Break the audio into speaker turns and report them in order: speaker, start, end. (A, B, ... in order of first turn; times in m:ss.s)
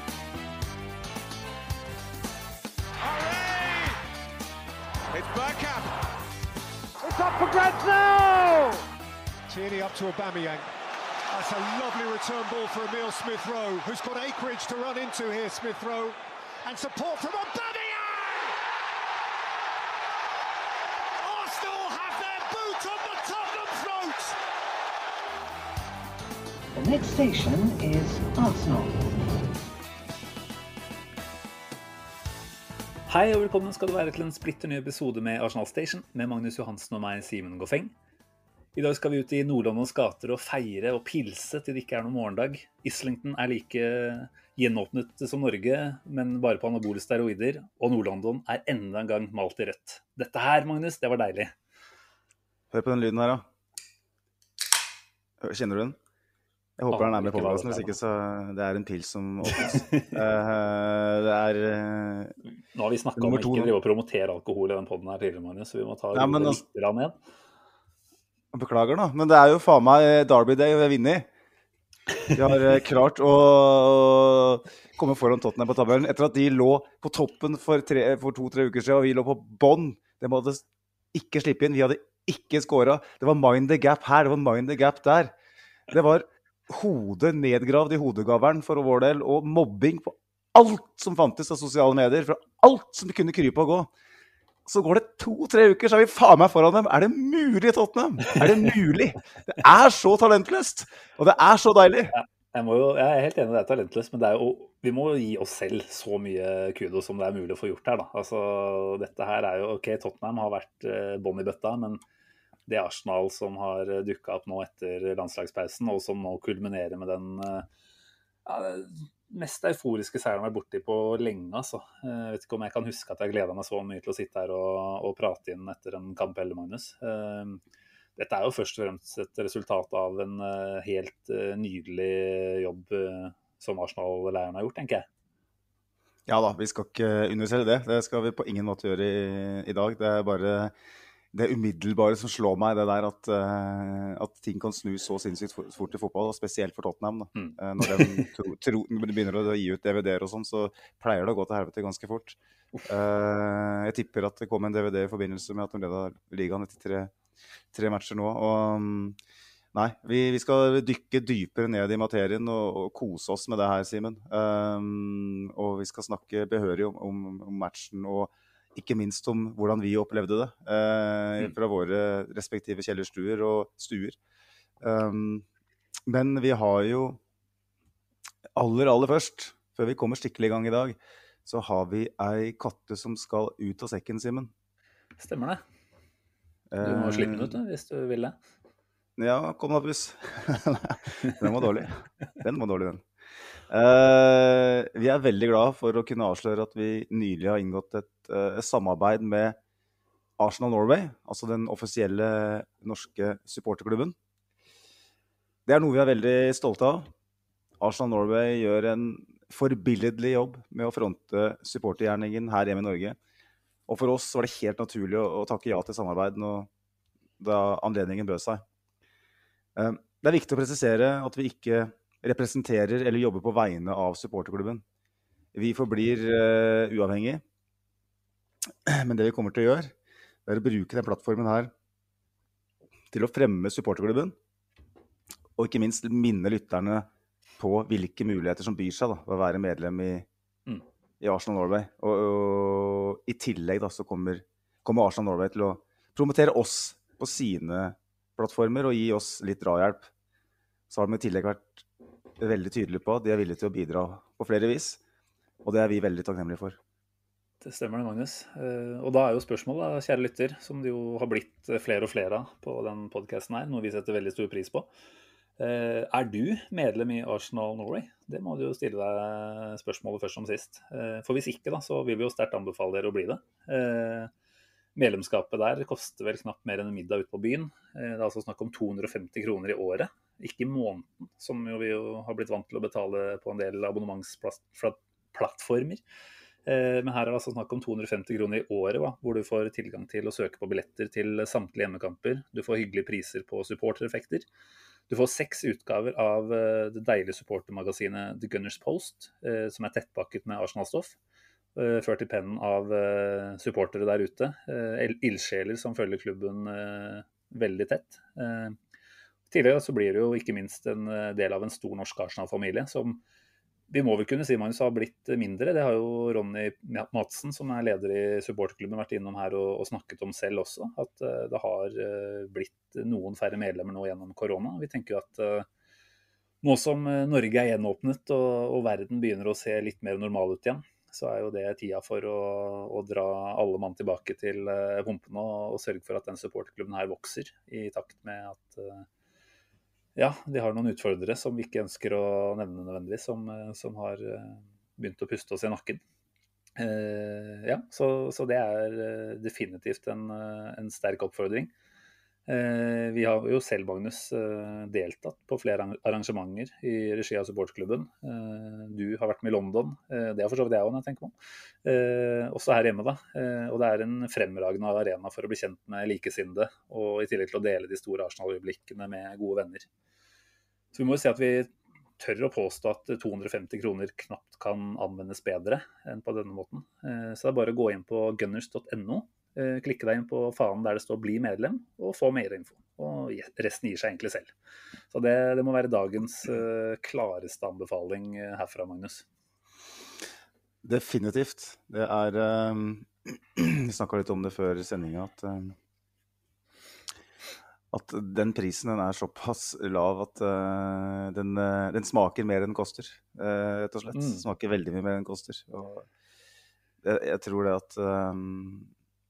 0:03.0-0:04.0 A
0:05.1-0:06.0 A
0:07.0-0:08.8 A
0:09.5-0:10.7 A
0:11.3-0:18.6 A
0:21.2-0:24.4 A
0:26.8-0:28.9 B
0:33.1-0:37.9 C
0:38.8-0:51.5 C
0:52.7-0:53.4 D
0:55.4-0:56.0 D
0:56.8-1:02.3 D
0:56.9-0:58.0 C
0:59.5-1:00.2 C
1:02.7-1:07.2 C
1:03.2-1:03.7 D
1:06.1-1:06.6 D
1:08.5-1:11.3 D
1:12.3-1:25.3 D
1:25.9-1:33.9 D
1:34.7-1:42.2 D
1:42.1-1:52.0 C
1:52.7-1:57.7 C
1:58.4-2:07.6 C
2:08.2-2:15.1 C
2:16.3-2:20.7 D
2:21.3-2:37.1 D
2:27.4-2:28.3 C
2:37.7-2:39.2 D
2:39.7-2:54.2 D
2:54.8-2:55.4 D
2:56.1-2:57.2 D
2:58.6-3:04.5 D
3:05.2-3:05.6 C
3:06.7-3:07.6 D
3:06.8-3:08.4 C
3:09.2-3:13.0 D
3:13.7-3:19.6 D
3:20.4-3:24.2 D
3:25.7-3:27.1 D
3:27.8-3:33.2 D
3:33.9-3:36.7 D
3:37.4-3:38.6 D
3:39.8-3:44.8 D
3:45.5-3:47.4 D
3:48.9-3:49.9 D
3:50.5-3:51.7 D
3:53.1-3:54.4 D
3:55.6-3:57.1 D
3:57.6-4:00.3 D
4:01.2-4:10.1 D
4:10.9-4:11.8 D
4:12.4-4:15.0 D
4:15.6-4:16.8 D
4:17.6-4:24.9 C
4:25.6-4:34.3 C
4:35.0-4:46.0 C
4:46.7-4:54.4 C
4:55.1-5:01.2 C
5:01.8-5:08.8 C
5:09.5-5:13.2 C
5:13.9-5:25.7 C
5:26.6-5:39.1 C
5:40.2-5:46.0 C
5:46.8-5:51.7 C
5:52.5-6:01.3 C
6:01.8-6:09.9 C
6:10.9-6:24.5 C
6:25.1-6:29.3 C
6:30.8-6:35.8 D
6:37.9-6:46.1 D
6:44.1-6:44.4 C
6:47.0-6:48.9 D